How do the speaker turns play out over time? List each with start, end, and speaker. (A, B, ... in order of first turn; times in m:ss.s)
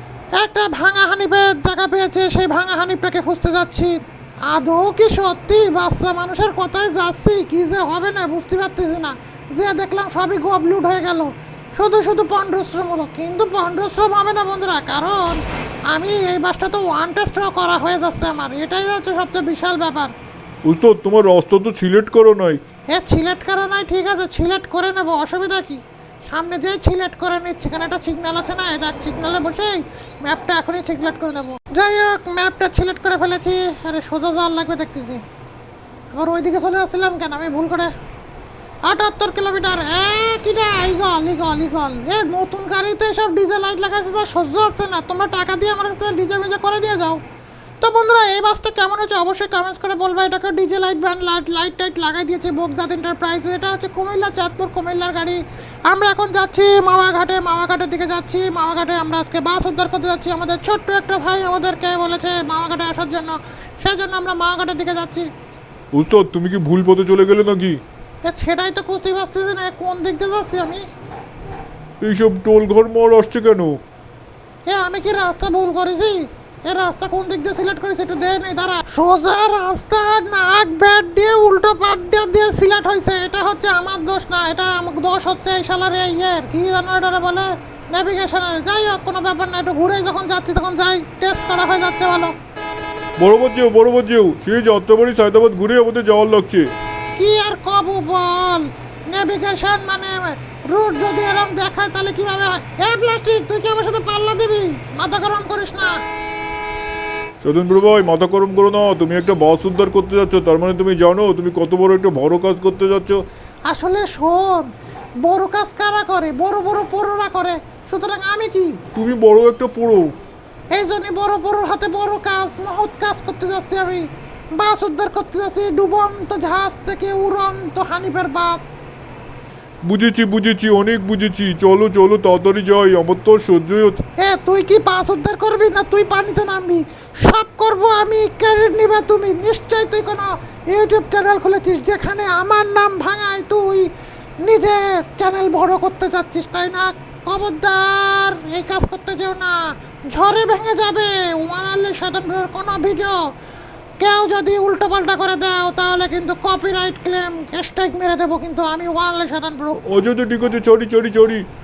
0:00.4-0:03.9 A
0:04.5-0:20.1 A
0:20.7-0:22.6 B
0:22.9-0:35.2 A
0:36.1-0:37.9 A
0:38.9-0:47.2 A
0:47.8-1:05.3 A
1:05.9-1:07.8 B
1:08.3-1:10.8 A
1:12.0-1:13.8 B
1:14.7-1:32.4 A
1:33.2-1:36.6 B
1:37.2-1:46.0 A
1:47.4-1:53.2 B
1:53.7-1:54.7 A
1:55.3-1:58.8 A
1:59.0-2:00.1 B
2:00.7-2:08.7 A
2:09.8-2:14.0 B
2:14.2-2:23.9 A
2:24.4-2:29.6 A
2:30.1-2:33.2 A
2:34.0-2:39.8 A
2:39.9-2:41.4 B